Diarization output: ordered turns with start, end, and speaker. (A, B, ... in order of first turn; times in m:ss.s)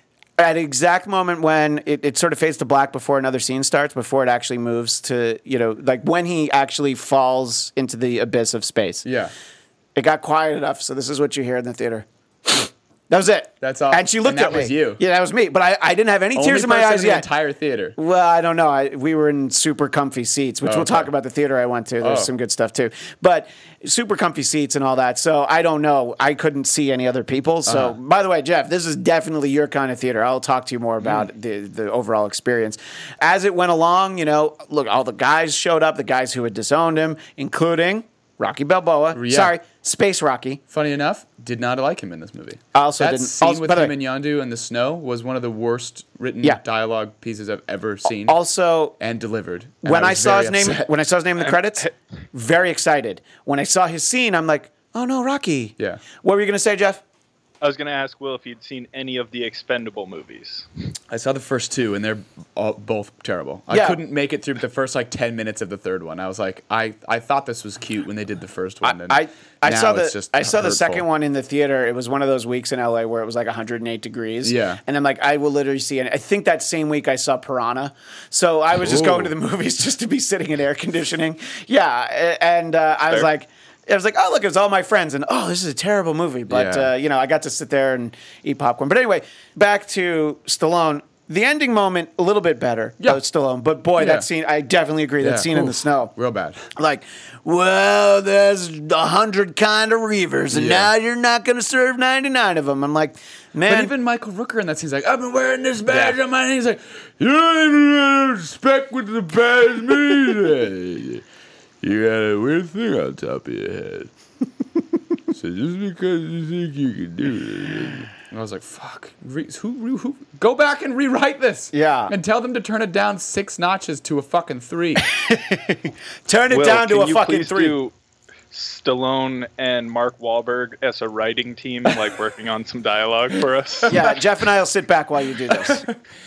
0:00.4-0:09.0 A
0:09.0-0:09.3 B
0:10.0-0:17.3 A
0:13.6-0:15.0 B
0:16.4-0:18.0 B
0:18.0-0:40.6 A
0:20.6-0:21.1 B
0:22.0-0:22.3 B
0:27.6-0:28.0 B
0:39.1-0:39.5 B
0:40.7-0:48.4 B
0:42.7-0:43.9 A
0:48.2-0:49.0 A
0:49.0-0:50.9 B
0:49.8-0:57.0 A
0:55.8-0:56.0 B
0:57.6-1:00.7 C
1:01.1-1:11.0 B
1:03.7-1:04.0 A
1:08.8-1:36.1 A
1:14.4-1:14.8 B
1:18.8-1:19.3 B
1:26.5-1:26.9 B
1:34.0-1:34.3 B
1:35.2-1:36.6 B
1:36.7-1:43.9 A
1:40.5-1:40.9 B
1:43.7-1:51.2 B
1:45.9-1:46.2 A
1:51.8-1:54.1 B
1:55.3-2:05.0 B
2:01.7-2:02.1 A
2:05.0-2:07.8 A
2:06.5-2:07.9 C
2:08.5-2:14.0 C
2:13.9-2:15.9 A
2:15.5-2:15.9 B